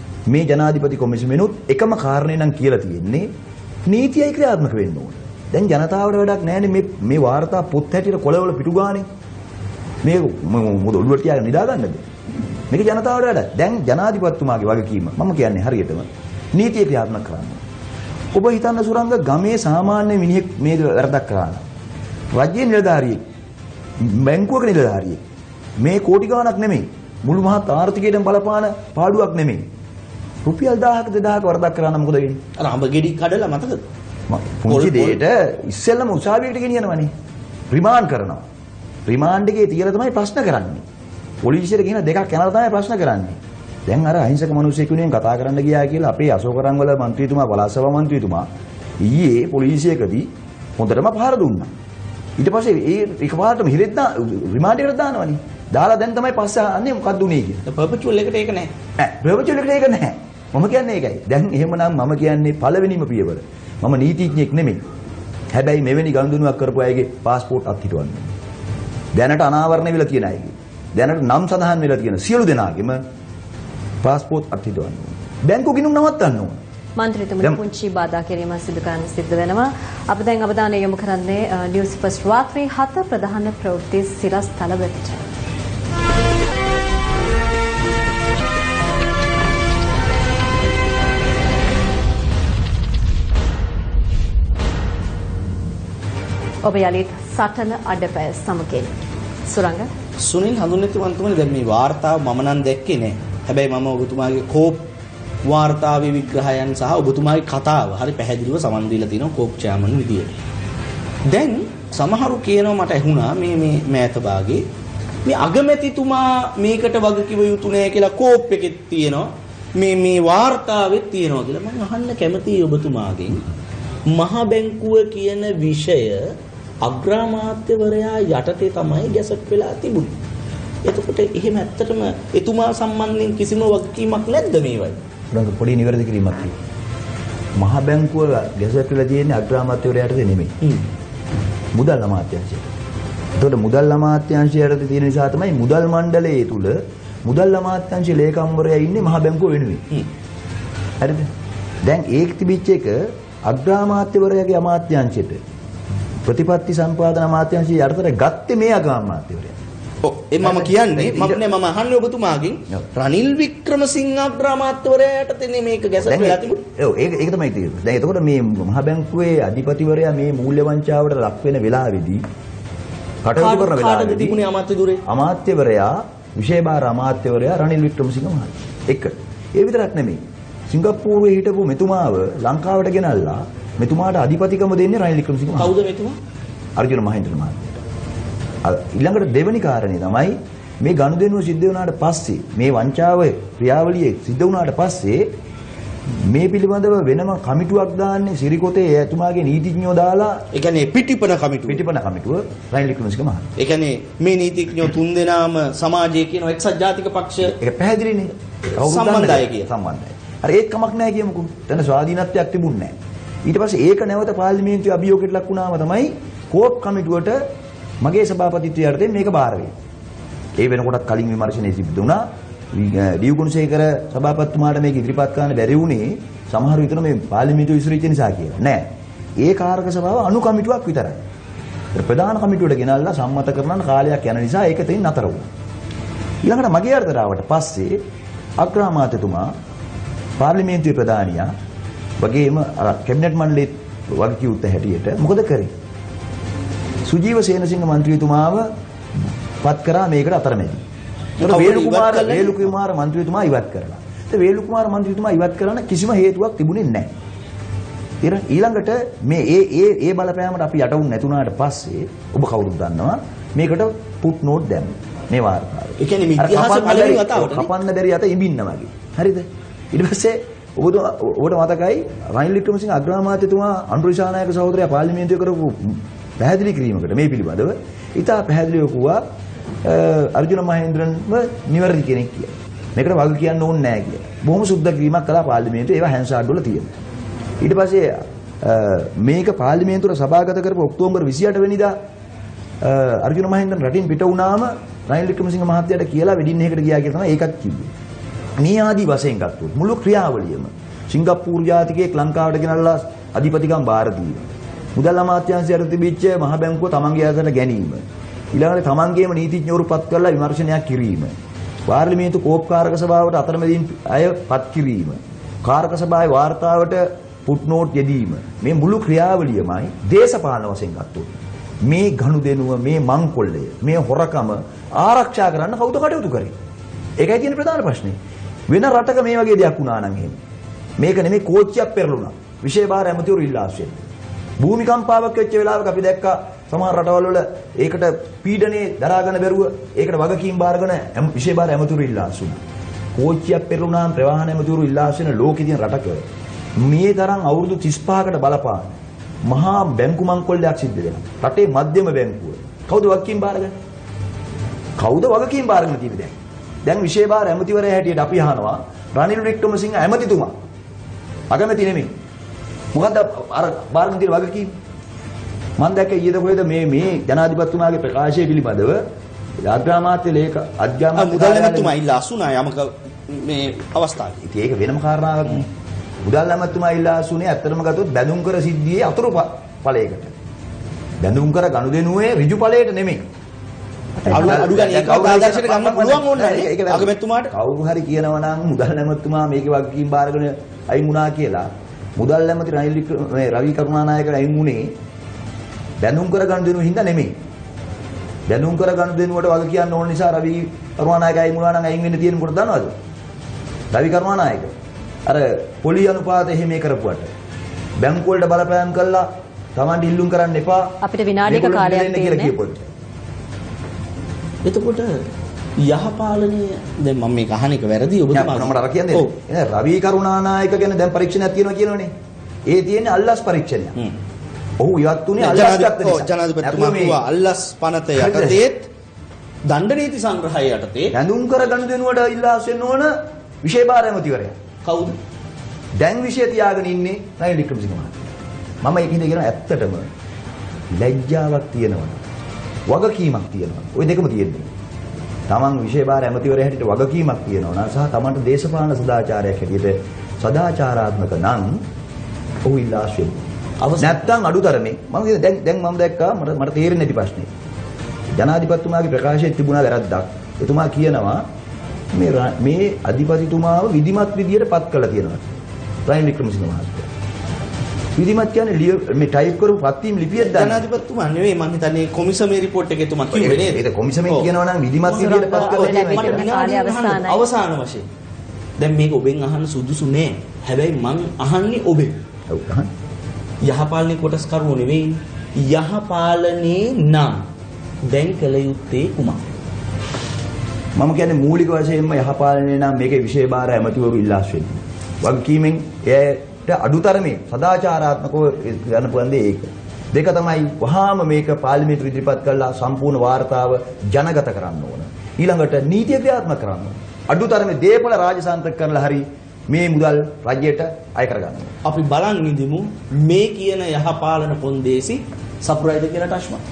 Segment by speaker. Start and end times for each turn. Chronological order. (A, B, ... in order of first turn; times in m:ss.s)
0:00.3-0:03.3 A
0:03.8-0:09.0 A
0:10.0-0:12.0 A
0:12.7-0:17.6 A
0:18.3-0:21.6 A
0:22.3-0:23.2 A
0:24.0-0:25.2 A
0:25.8-0:29.6 A
0:30.4-0:32.4 A
0:32.6-0:33.8 B
0:34.3-0:37.1 A
0:34.7-0:35.2 B
0:37.7-0:38.4 A
0:39.1-0:40.8 A
0:41.4-0:48.5 A
0:49.0-0:51.7 A
0:52.4-0:57.6 A
0:57.6-0:58.7 B
0:59.0-1:04.8 A
1:05.5-1:08.3 A
1:09.1-1:13.0 A
1:14.0-1:16.6 A
1:17.0-1:25.2 C
1:36.6-1:38.9 C
1:39.4-1:39.9 C
1:40.2-1:44.9 B
1:45.4-1:50.4 B
1:51.2-1:54.6 B
1:55.2-2:03.4 B
2:04.1-2:10.2 B
2:10.8-2:15.0 B
2:15.3-2:16.5 A
2:17.6-2:20.5 A
2:21.7-2:22.7 A
2:23.4-2:29.8 A
2:31.0-2:31.3 A
2:31.8-2:35.4 A
2:36.2-2:39.6 A
2:40.0-2:46.6 B
2:40.4-2:41.4 A
2:46.0-2:52.2 A
2:53.2-2:54.4 A
2:53.4-2:55.0 B
2:55.0-3:05.8 A
3:05.6-3:06.2 B
3:06.8-3:07.7 A
3:08.6-3:15.3 A
3:16.2-3:20.4 A
3:20.5-3:21.8 B
3:21.6-3:23.5 A
3:23.6-3:27.6 B
3:27.5-3:32.9 A
3:28.8-3:29.7 B
3:33.4-3:37.4 A
3:38.0-3:39.7 A
3:40.6-3:48.9 A
3:49.4-3:51.2 A
3:51.9-3:55.5 A
3:56.4-3:58.0 A
3:58.6-3:59.5 A
4:00.4-4:01.5 A
4:02.2-4:05.7 A
4:07.0-4:08.7 A
4:09.6-4:10.8 A
4:11.4-4:12.7 B
4:11.4-4:17.1 A
4:18.2-4:39.2 A
4:26.0-4:27.7 B
4:39.8-4:46.9 A
4:47.6-4:52.0 A
4:52.8-4:57.9 A
4:58.6-5:04.4 A
5:05.0-5:11.3 A
5:11.9-5:26.5 A
5:27.2-5:28.2 A
5:28.7-5:30.4 A
5:31.0-5:34.0 A
5:34.6-5:42.6 A
5:43.1-5:46.2 A
5:46.8-5:48.9 A
5:49.4-5:53.7 A
5:55.0-6:00.5 A
6:01.5-6:02.1 A
6:02.9-6:04.7 A
6:05.8-6:09.0 A
6:09.6-6:11.9 A
6:11.1-6:14.4 B
6:14.4-6:15.7 A
6:16.2-6:20.3 A
6:21.2-6:23.2 A
6:24.2-6:34.9 A
6:24.2-6:27.5 B
6:36.0-6:37.3 A
6:38.5-6:42.9 A
6:43.9-6:44.7 A
6:45.2-6:47.3 A
6:48.0-6:50.9 A
6:51.0-6:52.5 C
6:51.4-6:52.9 A
6:54.6-6:55.2 B
6:55.8-6:59.3 B
6:58.3-7:02.1 A
7:02.7-7:04.0 A
7:04.8-7:07.2 A
7:05.4-7:08.9 B
7:08.1-7:08.6 A
7:09.6-7:11.1 B
7:11.1-7:14.6 A
7:14.8-7:15.2 B
7:16.0-7:18.3 A
7:18.8-7:20.1 A
7:21.0-7:22.2 A
7:22.9-7:24.7 A
7:25.5-7:31.8 A
7:32.6-7:33.4 A
7:33.8-7:34.2 B
7:34.0-7:37.5 A
7:38.3-7:41.4 A
7:42.1-7:45.4 A
7:46.0-7:47.1 A
7:48.2-7:50.8 A
7:50.4-7:54.5 B
7:53.3-7:56.5 A
7:55.0-7:58.0 B
7:55.1-7:57.5 C
7:58.8-8:02.2 B
8:02.5-8:02.9 A
8:03.6-8:07.5 B
8:08.0-8:09.4 B
8:11.0-8:31.7 A
8:31.8-8:36.6 B